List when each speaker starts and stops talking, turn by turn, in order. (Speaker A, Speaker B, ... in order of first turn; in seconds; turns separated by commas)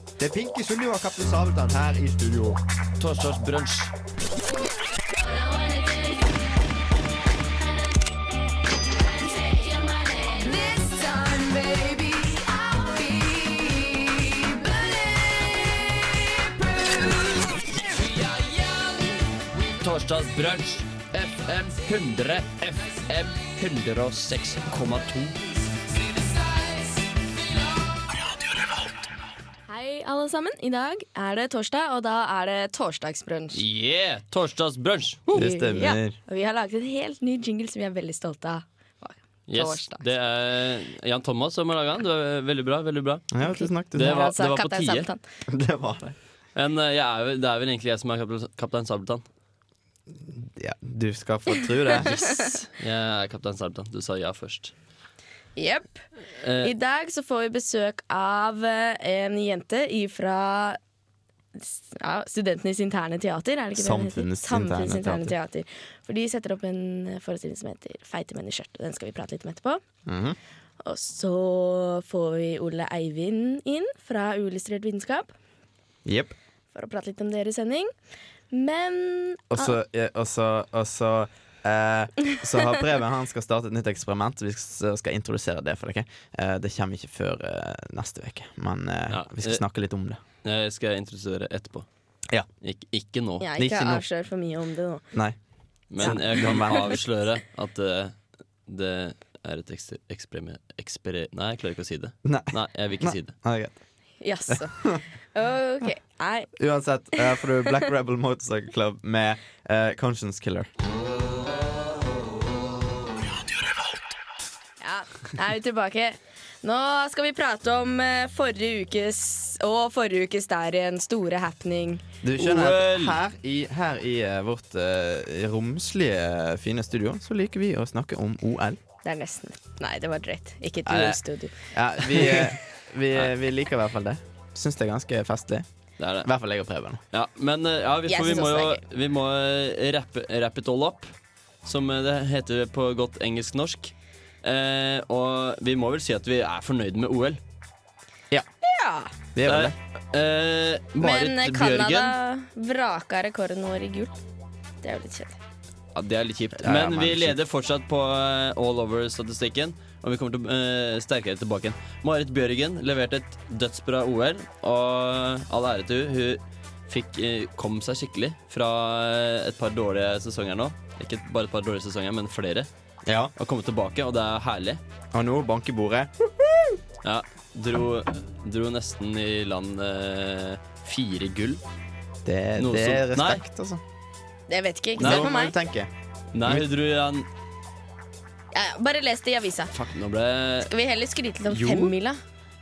Speaker A: 0.2-2.6, Speaker B: 3.0-3.9, Speaker C: 5.3-6.2, Speaker C: 9.4-13.3, Speaker B: 17.9-19.0, Speaker B: 19.5-25.4, Speaker C: 29.7-33.6, Speaker B: 33.5-35.3, Speaker C: 35.3-40.0, Speaker A: 35.3-36.2, Speaker B: 39.5-43.3, Speaker A: 43.3-44.1, Speaker C: 43.4-45.2, Speaker B: 43.9-45.1, Speaker A: 45.5-46.1, Speaker B: 46.5-49.2, Speaker A: 50.2-52.4, Speaker B: 52.0-54.7, Speaker C: 55.5-56.1, Speaker B: 56.4-56.7, Speaker C: 56.6-60.8, Speaker C: 61.5-69.8, Speaker A: 63.8-65.3, Speaker A: 70.0-70.4, Speaker C: 70.8-75.3, Speaker A: 76.0-76.3, Speaker C: 76.7-77.9, Speaker C: 78.5-79.8, Speaker A: 79.5-90.2, Speaker B: 89.1-89.6, Speaker B: 90.4-91.9, Speaker B: 92.6-93.5, Speaker C: 93.4-95.0, Speaker A: 93.6-94.0, Speaker B: 95.9-98.1, Speaker A: 96.0-96.9, Speaker B: 98.7-103.3, Speaker A: 102.2-103.7, Speaker C: 104.2-106.5, Speaker A: 104.5-105.0, Speaker A: 106.6-110.7, Speaker C: 107.2-107.8, Speaker C: 114.8-122.0, Speaker A: 122.2-128.8, Speaker B: 122.4-123.2, Speaker C: 129.0-131.5, Speaker A: 130.8-135.7, Speaker B: 132.1-132.5, Speaker B: 136.0-136.3, Speaker A: 136.2-137.0, Speaker B: 137.1-141.1, Speaker C: 138.1-138.8, Speaker B: 141.6-147.4, Speaker C: 148.6-149.1, Speaker A: 149.3-149.8, Speaker B: 149.4-152.2, Speaker C: 151.0-154.2, Speaker C: 154.8-155.4, Speaker B: 155.9-172.7, Speaker A: 156.6-157.3, Speaker A: 173.0-173.3, Speaker B: 173.3-174.8, Speaker A: 175.1-176.8, Speaker B: 177.0-181.6, Speaker A: 182.2-183.8, Speaker B: 182.6-183.4, Speaker C: 184.5-185.5, Speaker A: 185.0-185.9, Speaker B: 185.0-185.3, Speaker B: 186.3-187.3, Speaker C: 188.5-189.7, Speaker B: 189.7-190.7, Speaker C: 190.6-192.2, Speaker B: 191.5-191.9